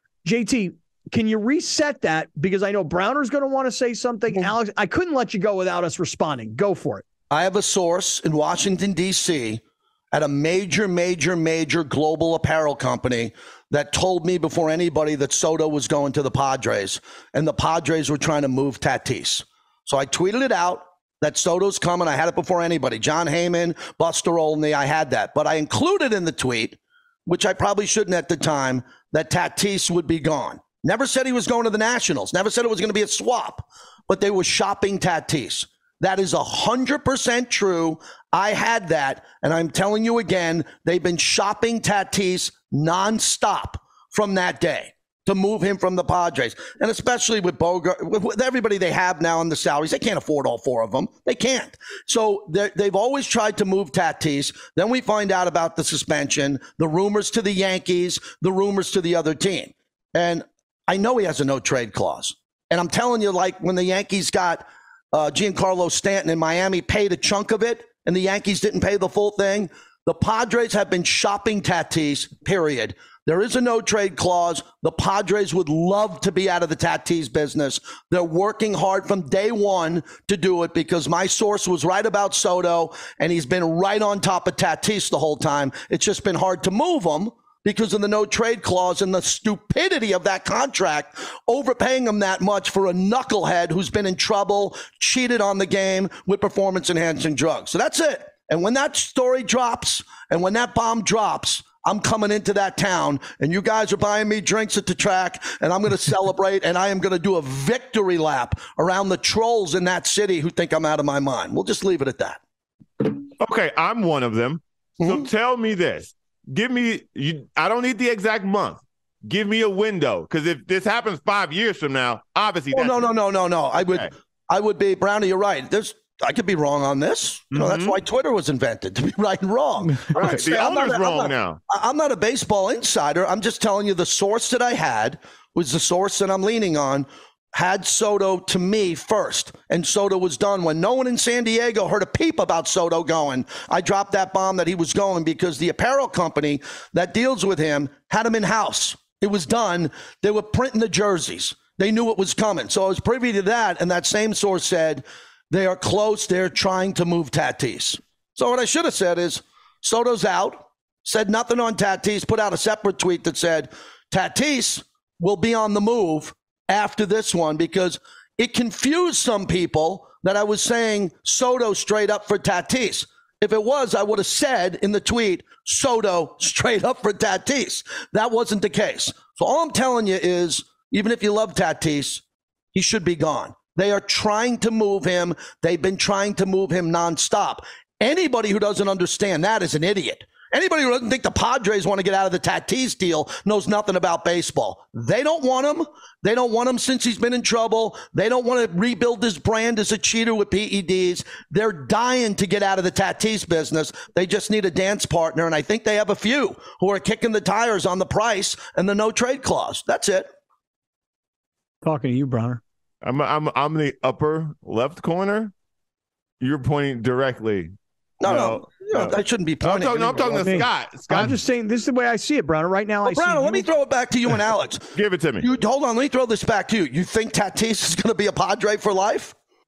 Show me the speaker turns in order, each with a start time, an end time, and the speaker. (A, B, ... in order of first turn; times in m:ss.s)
0:00.2-0:07.0 A
0:07.3-1:52.4 B
1:53.0-2:03.1 C
1:55.0-1:55.3 B
2:02.7-3:02.2 B
2:03.7-2:04.1 C
2:07.5-2:08.0 C
2:10.1-2:11.6 C
3:02.7-3:30.3 B
3:31.8-3:32.6 A
3:33.0-3:35.5 C
3:36.4-3:37.7 C
3:38.2-3:40.6 B
3:38.2-3:41.4 C
3:40.3-3:43.7 A
3:43.0-3:49.4 B
3:44.9-3:45.5 C